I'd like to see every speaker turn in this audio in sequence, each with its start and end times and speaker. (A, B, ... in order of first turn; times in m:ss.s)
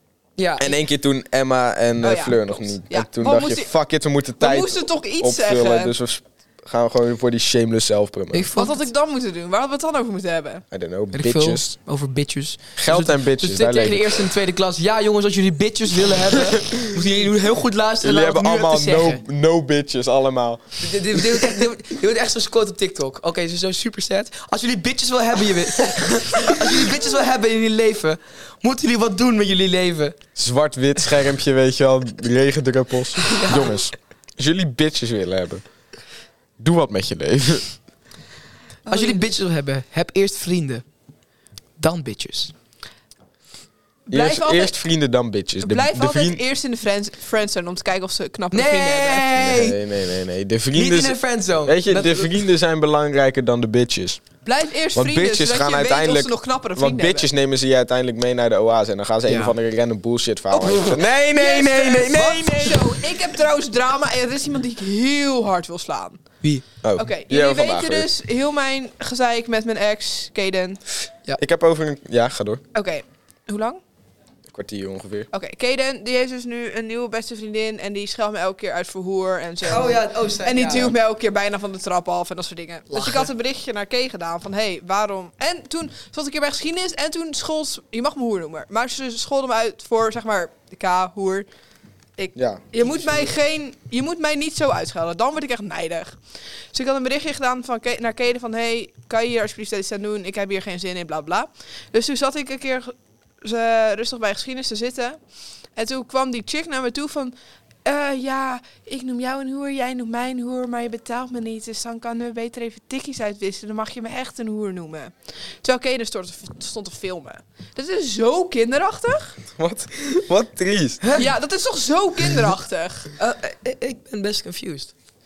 0:00.4-0:00.7 A
0:00.6-0:08.5 B
0:02.0-0:03.7 C
0:04.4-0:05.9 C
0:08.3-0:08.9 A
0:08.5-0:10.6 C
0:10.7-0:11.7 B
0:11.1-0:19.2 A
0:12.8-0:14.3 B
0:16.4-0:17.0 B
0:18.0-0:21.6 B
0:20.8-0:30.2 A
0:30.4-0:35.6 B
0:33.3-0:33.9 A
0:36.6-0:37.7 B
0:38.8-0:40.8 A
0:38.8-0:39.3 C
0:41.8-0:42.5 A
0:44.1-0:44.7 C
0:44.1-0:46.4 B
0:45.6-0:49.3 C
0:48.5-0:49.8 A
0:49.4-0:54.2 B
0:50.7-0:52.3 A
0:54.4-0:57.3 C
0:54.9-1:02.8 B
0:59.2-0:59.5 A
1:00.6-1:01.0 A
1:00.8-1:06.2 C
1:06.8-1:08.1 B
1:07.0-1:10.8 C
1:11.4-1:12.6 B
1:12.7-1:13.8 C
1:14.5-1:15.3 B
1:15.3-1:31.5 C
1:19.6-1:20.9 A
1:22.9-1:23.3 A
1:32.2-1:36.2 C
1:32.3-1:33.0 B
1:36.7-1:45.2 C
1:45.7-1:59.4 C
1:59.6-2:01.1 B
2:01.0-2:01.3 A
2:01.1-2:03.1 C
2:03.2-2:04.9 A